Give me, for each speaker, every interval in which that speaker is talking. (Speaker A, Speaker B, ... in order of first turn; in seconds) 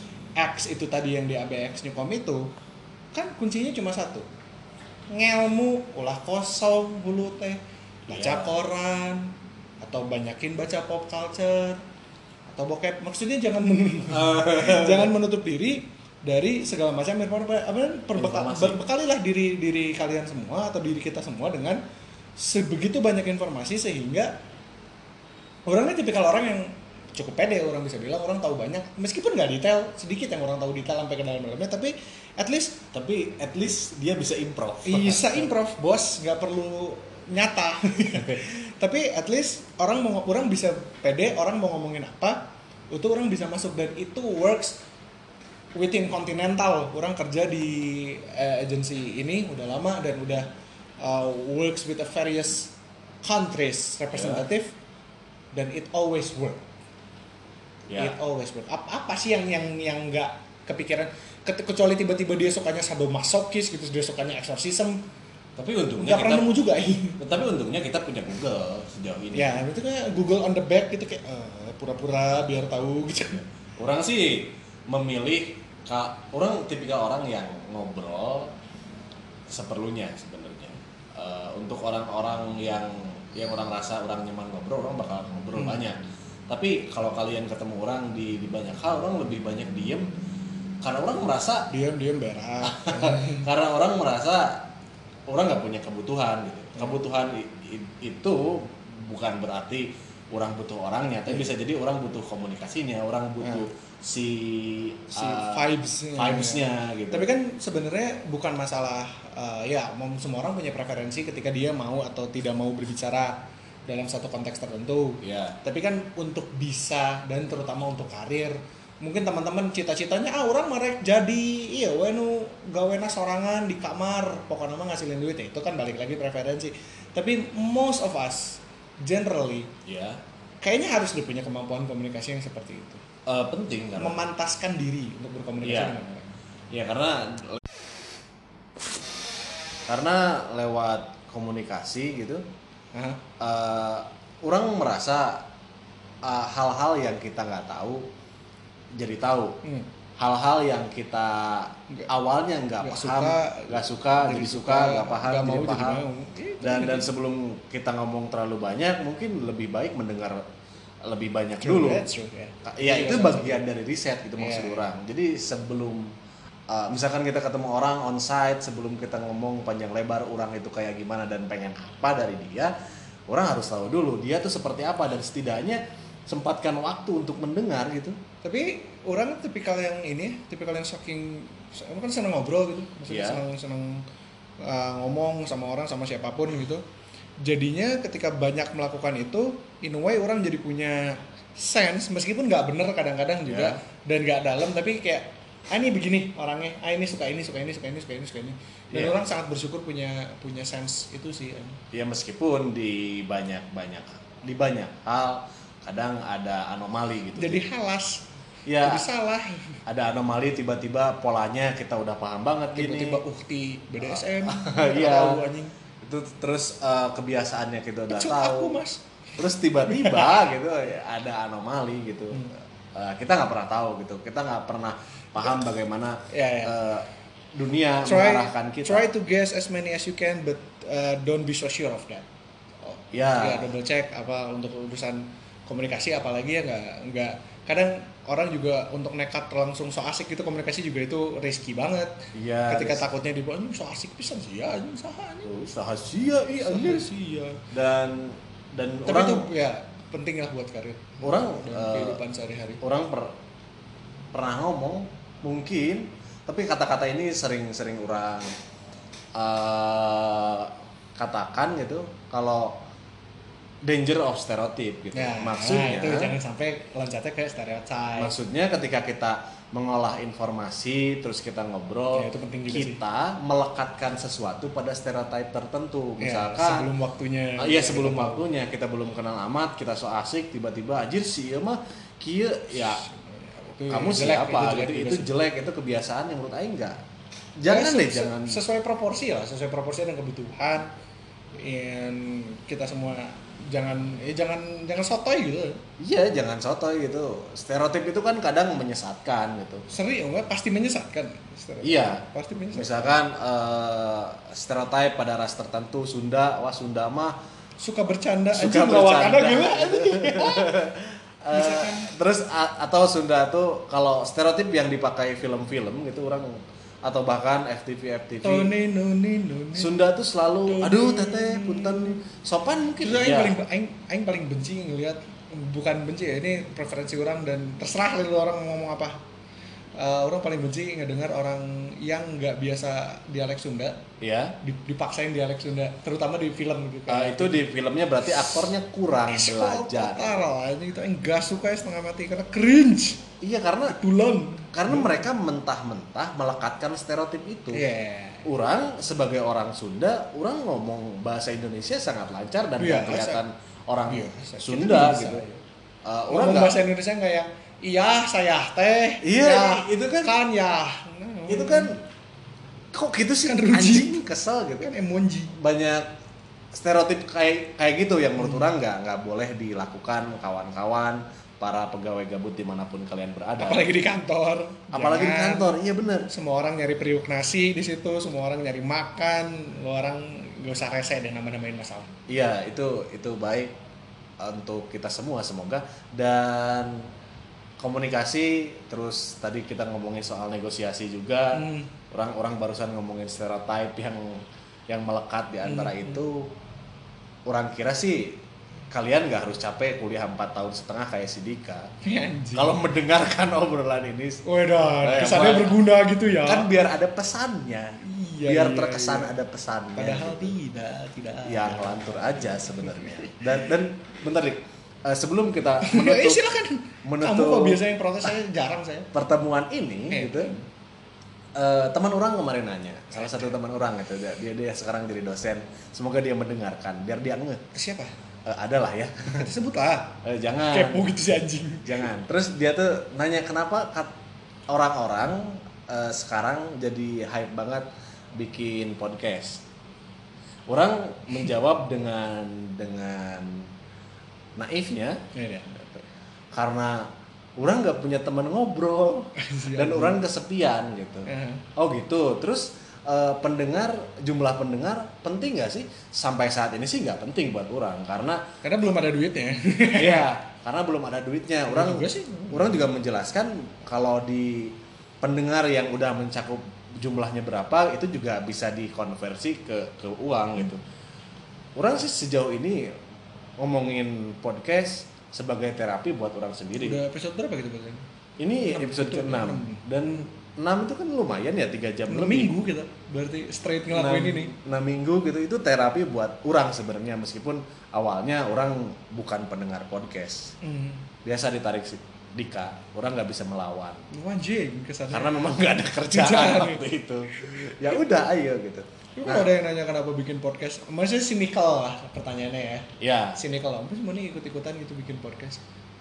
Speaker A: 0.4-2.5, 3.1-4.2, 5.1-11.8, 12.5-21.8, 22.4-24.3, 25.7-32.8, 34.8-44.8, 45.7-50.5, 51.0-54.7, 55.5-56.6, 58.0-65.0, 66.0-67.2, 69.3-73.4, 85.5-85.8, 91.7-93.5, 103.4-103.7, 105.1-129.7, 130.6-133.0, 133.9-136.3, 142.9-143.2, 152.8-157.1, 161.6-163.6, 164.4-164.8, 178.4-184.0, 184.6-186.8, 187.4-201.8, 207.3-208.2, 208.8-209.8, 212.7-215.7, 218.1-219.0, 219.8-220.4, 226.3-226.7, 228.0-232.2, 232.8-245.5, 246.6-247.6, 249.0-252.8, 265.1-268.3, 272.1-273.0, 276.2-278.4, 282.9-285.3, 287.7-290.9, 291.5-295.8, 299.9-303.1, 307.8-310.8, 311.5-312.1, 318.4-319.9, 320.6-322.2, 323.0-329.2, 330.0-334.0, 334.6-337.6, 339.3-343.3, 343.9-345.2, 347.7-348.4, 352.8-353.4, 354.1-355.6, 356.3-362.0, 363.4-364.2, 364.8-365.5, 368.4-368.7, 373.6-375.7, 376.3-382.1, 391.5-391.9, 395.6-396.2, 402.0-402.8, 404.4-406.7, 408.0-409.3, 409.9-413.3, 415.8-419.1, 420.1-420.6, 423.1-423.4, 427.7-428.1, 429.3-432.1, 445.3-445.7, 449.4-450.2, 451.3-451.6, 458.6-460.3, 461.7-462.8, 476.8-478.0, 478.6-479.8, 482.1-484.5, 490.6-491.1, 494.1-498.0, 499.1-505.6
Speaker B: 8.1-8.6, 14.1-15.1, 18.1-18.8, 32.9-35.5, 38.1-38.4, 54.1-54.4, 57.9-58.1, 65.5-66.5, 67.2-69.6, 73.8-78.5, 79.5-90.1, 90.8-91.7, 92.6-94.7, 95.3-107.3, 115.2-115.6, 129.8-130.2, 133.2-134.2, 135.6-136.0, 136.7-137.6, 139.9-142.4, 143.4-145.4, 146.2-148.1, 149.0-149.6, 150.2-156.0, 156.6-160.4, 161.0-162.1, 162.6-166.1, 166.7-172.7, 173.3-178.2, 183.1-183.4, 193.4-193.8, 198.9-199.2, 201.9-207.6, 208.7-209.1, 209.8-213.2, 214.0-215.4, 216.0-218.8, 219.4-229.0, 233.1-233.7, 242.3-243.0, 245.4-247.1, 247.7-249.5, 251.2-252.2, 252.8-253.3, 254.3-258.6, 259.3-262.8, 263.8-266.3, 268.1-276.9, 277.6-283.0, 283.9-287.0, 287.6-288.6, 296.0-299.8, 301.8-307.3, 308.5-318.7, 319.7-323.5, 334.2-334.6, 337.1-340.4, 343.4-344.0, 344.7-347.8, 348.4-355.4, 356.0-356.8, 359.2-360.3, 361.5-362.0, 362.9-364.9, 365.5-366.1, 366.7-373.9, 374.9-376.3, 382.3-383.7, 384.4-387.0, 387.8-396.5, 397.5-398.4, 398.9-401.9, 402.5-404.4, 405.0-405.8, 406.4-410.5, 411.4-416.4, 417.0-418.3, 419.1-420.6, 421.5-427.6, 428.4-429.5, 430.2-434.1, 434.7-439.6, 440.7-443.7, 444.6-445.2, 445.8-446.0, 446.5-458.4, 459.9-470.8, 471.8-472.9, 473.6-477.0, 478.4-482.5, 483.9-490.5, 491.2-494.0, 495.1-499.5, 503.0-503.4